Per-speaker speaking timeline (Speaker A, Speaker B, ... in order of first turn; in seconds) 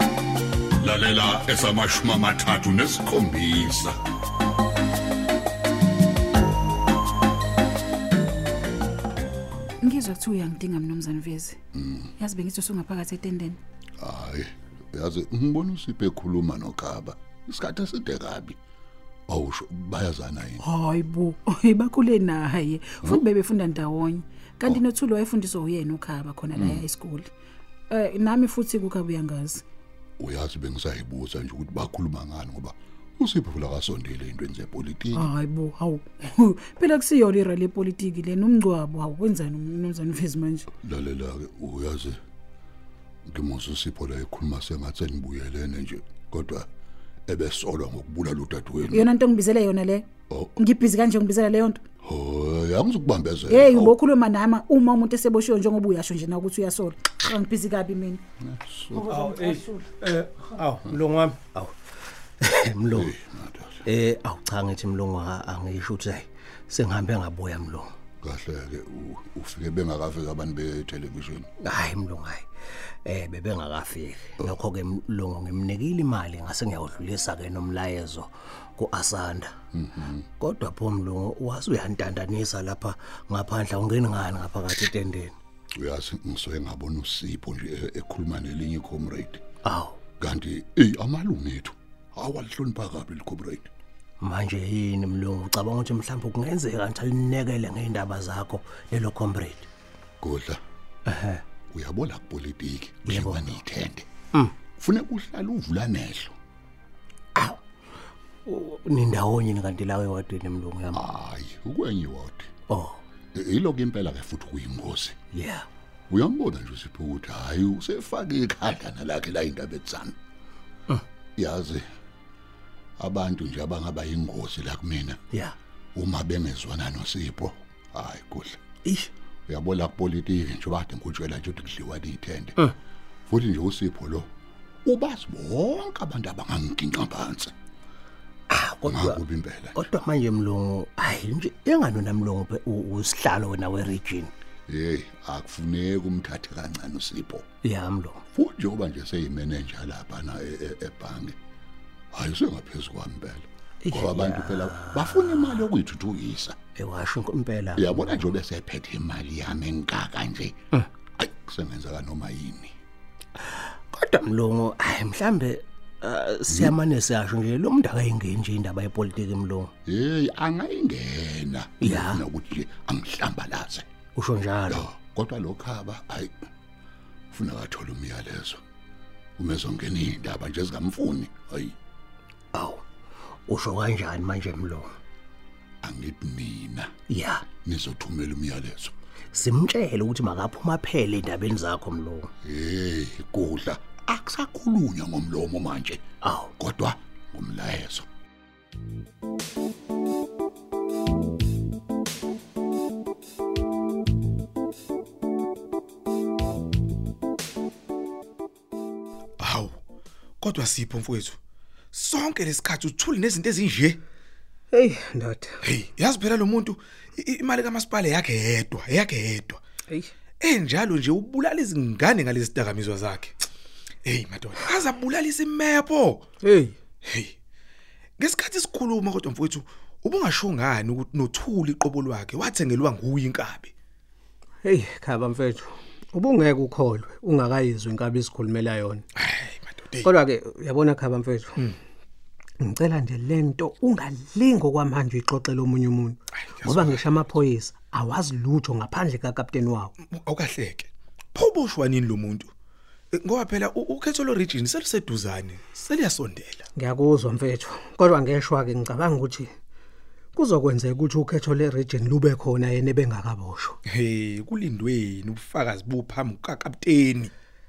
Speaker A: 0.8-4.0, 11.8-12.1, 14.0-18.6, 19.3-20.6, 26.6-26.9, 30.2-35.3, 40.8-42.2, 43.3-46.7, 47.3-49.1, 50.3-50.6, 52.0-54.0, 58.4-59.2, 62.9-63.9, 68.2-71.5, 79.7-80.3, 85.8-89.4, 90.2-93.7, 100.2-100.6, 101.7-104.1, 104.7-106.3, 110.9-112.5, 113.3-115.2, 116.1-120.2, 121.4-121.8, 123.0-125.2, 126.0-128.6, 129.5-132.7, 133.3-134.3, 134.9-137.5, 138.8-139.9, 144.7-147.5, 148.3-151.4, 152.1-156.6, 157.7-160.6, 161.2-162.7, 166.5-166.8, 169.9-173.9, 174.7-176.3, 177.3-178.6, 179.4-181.8, 185.8-186.9, 187.5-188.9, 192.4-196.0, 196.6-198.1
Speaker B: 9.8-11.6, 12.2-13.6, 20.6-27.3, 27.9-29.6, 35.1-40.7, 48.9-50.1, 50.6-51.8, 53.5-58.2, 59.0-59.9
Speaker C: 60.6-61.8, 62.4-63.1, 63.9-67.9, 71.6-72.5, 73.0-79.5, 80.4-85.4, 89.7-90.0, 94.2-99.7, 101.0-101.4, 103.1-103.6, 107.3-107.6, 108.5-111.0, 112.7-113.0, 115.3-115.7, 138.5-139.2, 139.8-144.3, 147.6-148.2, 153.8-155.6, 156.8-158.3, 163.4-169.7, 171.8-172.2, 174.2-174.9, 182.5-182.8, 183.5-185.0, 187.1-187.5, 189.3-192.3, 196.2-196.5
Speaker D: 209.4-209.7, 210.4-211.4, 211.9-214.0, 215.6-219.6, 220.4-223.3, 224.1-226.2, 227.1-227.3, 228.2-233.7, 239.2-240.1, 246.6-247.0, 250.0-252.5, 253.1-256.7, 263.9-267.3
Speaker E: 214.7-215.6, 226.4-226.8, 234.6-239.1, 240.0-241.6, 242.6-249.9, 256.8-259.5, 260.4-263.8